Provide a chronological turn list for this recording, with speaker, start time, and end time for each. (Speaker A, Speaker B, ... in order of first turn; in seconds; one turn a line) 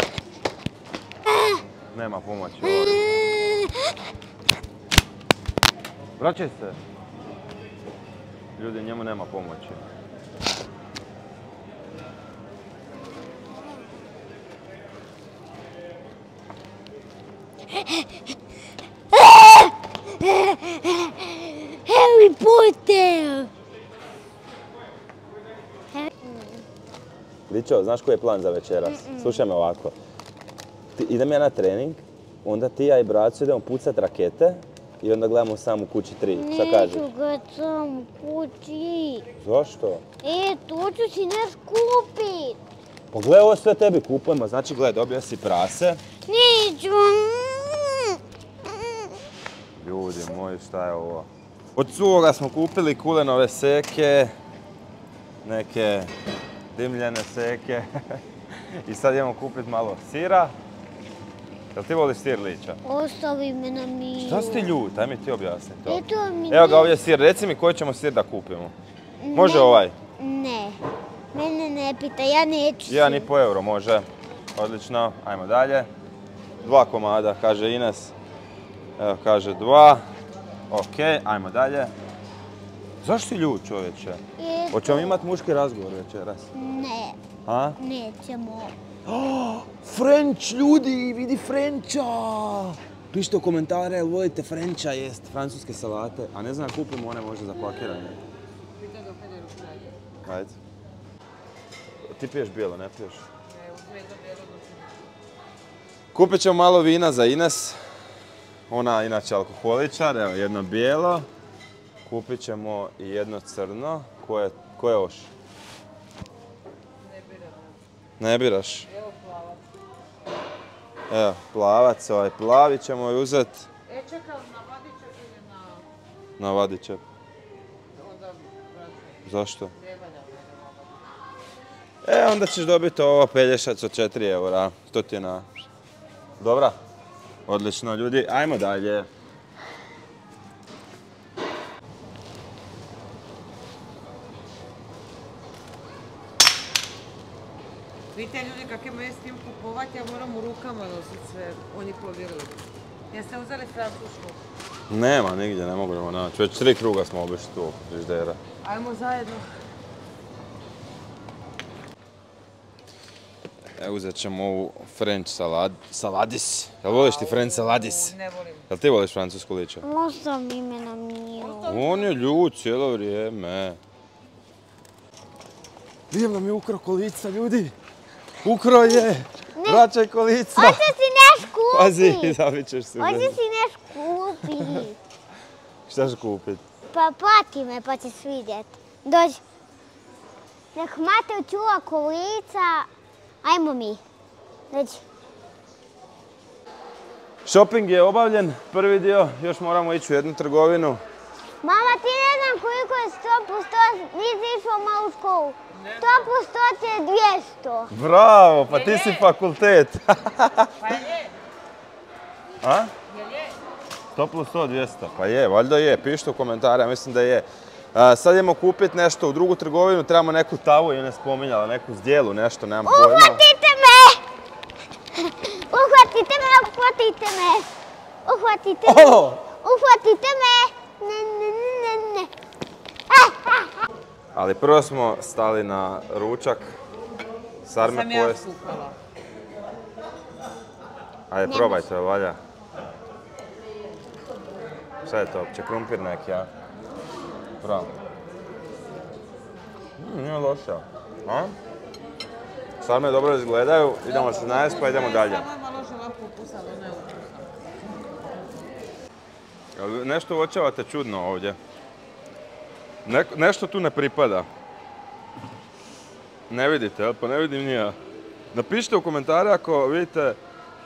Speaker A: 1.3-1.6
Speaker B: 1.9-3.1
Speaker A: 2.6-3.7
Speaker B: 6.2-6.8
Speaker B: 8.6-9.8
Speaker A: 19.1-23.5
Speaker A: 25.9-26.7
Speaker B: 27.5-29.9
Speaker A: 28.8-29.5
Speaker B: 31.0-37.1
Speaker A: 36.3-39.3
Speaker B: 39.4-40.0
Speaker A: 40.2-42.6
Speaker B: 43.1-46.0
Speaker A: 46.3-48.1
Speaker B: 49.8-54.3
Speaker B: 55.5-56.1
Speaker B: 56.8-57.9
Speaker B: 58.8-60.5
Speaker B: 61.8-62.8
Speaker A: 62.8-64.7
Speaker B: 64.2-68.7
Speaker A: 65.9-67.0
Speaker A: 69.2-70.8
Speaker B: 69.3-70.0
Speaker A: 71.3-73.3
Speaker B: 72.9-75.9
Speaker B: 76.6-78.1
Speaker B: 79.0-80.0
Speaker B: 80.7-81.9
Speaker B: 83.0-86.5
Speaker A: 84.4-85.2
Speaker A: 86.5-87.2
Speaker B: 87.5-87.8
Speaker A: 87.8-88.7
Speaker B: 89.1-98.2
Speaker C: 98.8-100.0
Speaker B: 100.3-100.6
Speaker B: 102.1-103.2
Speaker C: 103.5-105.1
Speaker B: 106.1-107.8
Speaker B: 108.7-111.3
Speaker B: 112.0-115.3
Speaker C: 117.0-117.8
Speaker B: 118.2-118.9
Speaker C: 118.9-119.7
Speaker B: 121.1-123.7
Speaker C: 123.9-125.9
Speaker B: 126.4-127.0
Speaker C: 127.9-131.2
Speaker B: 129.3-129.7
Speaker B: 132.0-135.5
Speaker B: 136.4-136.8
Speaker B: 137.5-139.1
Speaker C: 148.1-152.6
Speaker C: 153.1-154.4
Speaker B: 154.9-158.4
Speaker C: 158.6-159.5
Speaker B: 163.8-168.1
Speaker C: 166.8-168.7
Speaker B: 168.7-169.8
Speaker A: 169.8-171.8
Speaker C: 171.4-172.4
Speaker B: 171.7-173.8
Speaker B: 176.1-177.7
Speaker B: 178.4-180.9
Speaker A: 179.6-179.9
Speaker A: 180.6-182.4
Speaker B: 181.7-183.4
Speaker A: 183.0-185.0
Speaker B: 185.9-186.6
Speaker A: 186.9-189.4
Speaker A: 190.8-192.9
Speaker A: 193.4-194.0
Speaker A: 194.7-195.0
Speaker B: 197.4-201.0
Speaker A: 201.6-207.9
Speaker C: 205.7-206.3
Speaker B: 207.9-210.8
Speaker C: 208.7-209.3
Speaker C: 210.7-211.4
Speaker B: 212.6-212.9
Speaker C: 213.1-213.6
Speaker B: 214.2-223.4
Speaker A: 222.8-224.2
Speaker A: 225.4-227.7
Speaker A: 228.2-232.3
Speaker B: 228.8-229.4
Speaker A: 233.1-233.7
Speaker B: 234.3-236.8
Speaker B: 237.7-238.5
Speaker C: 237.8-239.0
Speaker B: 241.3-242.4
Speaker A: 241.4-241.9
Speaker B: 245.1-246.5
Speaker B: 247.6-247.9
Speaker B: 250.0-251.5
Speaker B: 252.8-255.5
Speaker C: 254.0-257.6
Speaker B: 259.8-261.6
Speaker B: 263.1-264.5
Speaker B: 266.5-268.0
Speaker B: 268.5-270.4